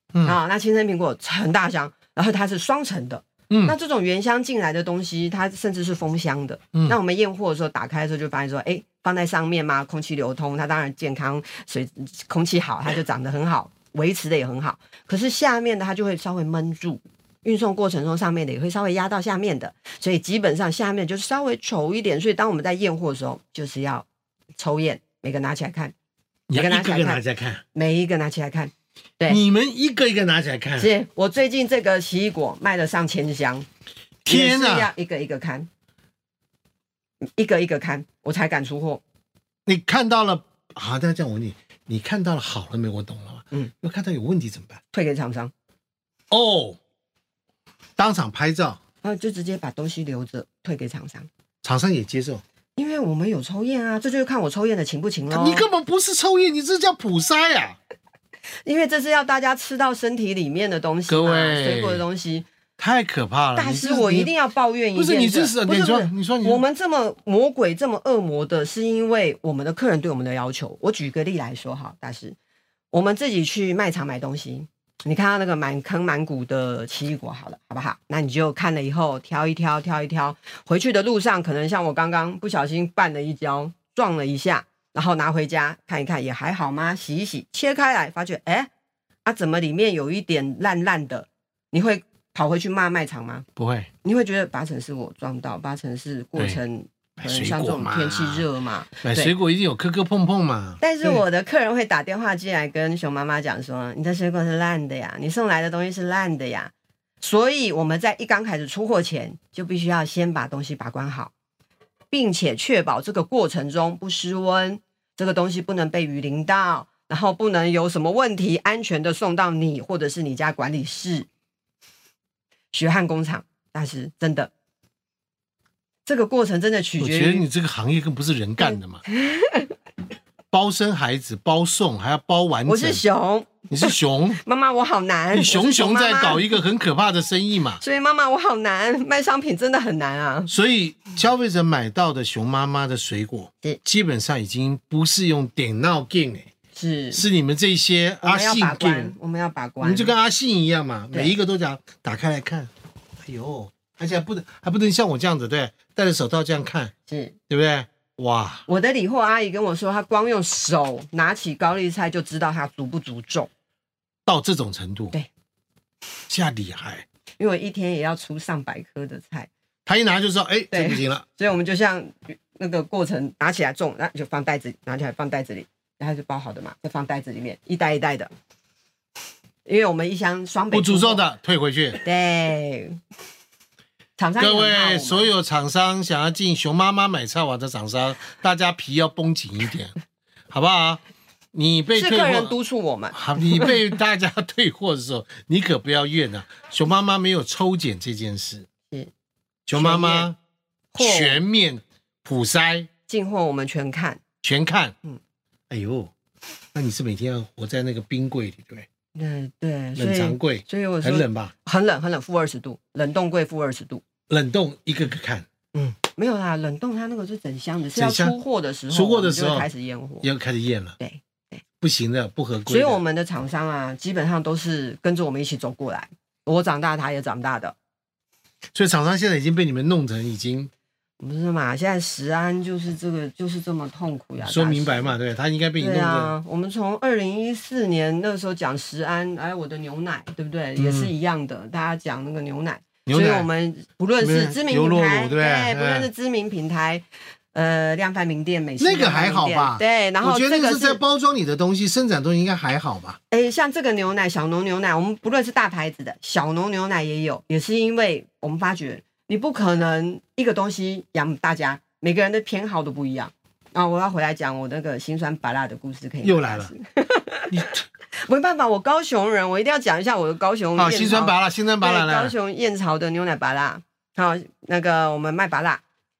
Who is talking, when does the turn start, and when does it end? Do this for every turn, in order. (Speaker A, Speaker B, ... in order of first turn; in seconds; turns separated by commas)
Speaker A: 0.2-24.1, Speaker B: 3.5-3.8, Speaker A: 24.6-25.9, Speaker B: 26.5-27.6, Speaker A: 26.5-27.2, Speaker A: 27.7-29.4, Speaker B: 29.3-30.9, Speaker A: 30.8-33.7, Speaker B: 34.2-34.9, Speaker A: 34.3-35.7, Speaker A: 37.3-39.0, Speaker B: 39.7-44.8, Speaker A: 44.9-45.5, Speaker B: 46.3-46.8, Speaker B: 48.0-48.8, Speaker A: 49.0-51.3, Speaker B: 51.6-52.4, Speaker A: 52.8-55.7, Speaker B: 55.3-57.8, Speaker A: 58.6-62.5, Speaker B: 61.1-62.0, Speaker B: 62.8-64.3, Speaker A: 63.5-72.4, Speaker B: 65.0-66.6, Speaker A: 72.9-88.7, Speaker A: 89.2-93.5, Speaker B: 93.6-93.9, Speaker A: 94.0-99.3, Speaker B: 97.2-98.5, Speaker B: 99.0-101.2, Speaker A: 100.8-111.3, Speaker A: 112.1-121.3, Speaker A: 122.7-124.5, Speaker A: 126.1-127.5, Speaker B: 127.0-129.0, Speaker A: 128.6-129.8, Speaker B: 130.5-133.0, Speaker A: 132.7-136.6, Speaker B: 133.7-134.4, Speaker B: 135.3-137.8, Speaker A: 137.8-140.5, Speaker B: 140.5-146.5, Speaker A: 146.7-147.2, Speaker B: 147.1-149.2, Speaker A: 148.2-150.2, Speaker B: 149.8-152.7, Speaker B: 153.2-156.9, Speaker A: 157.1-157.4, Speaker B: 157.5-158.7, Speaker A: 158.7-163.5, Speaker B: 164.3-165.2, Speaker B: 166.3-167.1, Speaker A: 167.4-169.5, Speaker B: 169.9-171.2, Speaker A: 170.7-178.3, Speaker A: 179.7-181.2, Speaker B: 180.7-182.0, Speaker A: 182.0-183.0, Speaker A: 184.2-185.3, Speaker B: 184.4-189.9, Speaker B: 190.5-192.6, Speaker A: 191.9-193.8, Speaker B: 193.1-198.7, Speaker B: 199.7-200.4, Speaker A: 199.7-200.3, Speaker A: 200.9-201.4, Speaker B: 201.0-202.9, Speaker A: 203.1-204.2, Speaker B: 204.4-204.9, Speaker B: 205.7-206.1, Speaker B: 206.7-208.9, Speaker A: 209.2-214.0, Speaker B: 210.0-211.5, Speaker B: 214.3-215.5, Speaker A: 215.7-220.3, Speaker B: 217.9-218.4, Speaker B: 218.9-219.7, Speaker B: 220.2-221.0, Speaker A: 221.0-221.6, Speaker B: 221.8-223.0, Speaker A: 222.7-227.8, Speaker B: 228.8-230.7, Speaker A: 231.2-235.1, Speaker B: 234.4-236.3, Speaker A: 235.8-251.0, Speaker B: 240.8-241.1, Speaker B: 243.1-243.5, Speaker B: 244.2-246.1, Speaker B: 248.8-253.2, Speaker A: 253.3-267.5, Speaker B: 266.2-266.7, Speaker B: 267.5-267.8, Speaker A: 268.2-275.8, Speaker B: 270.8-272.3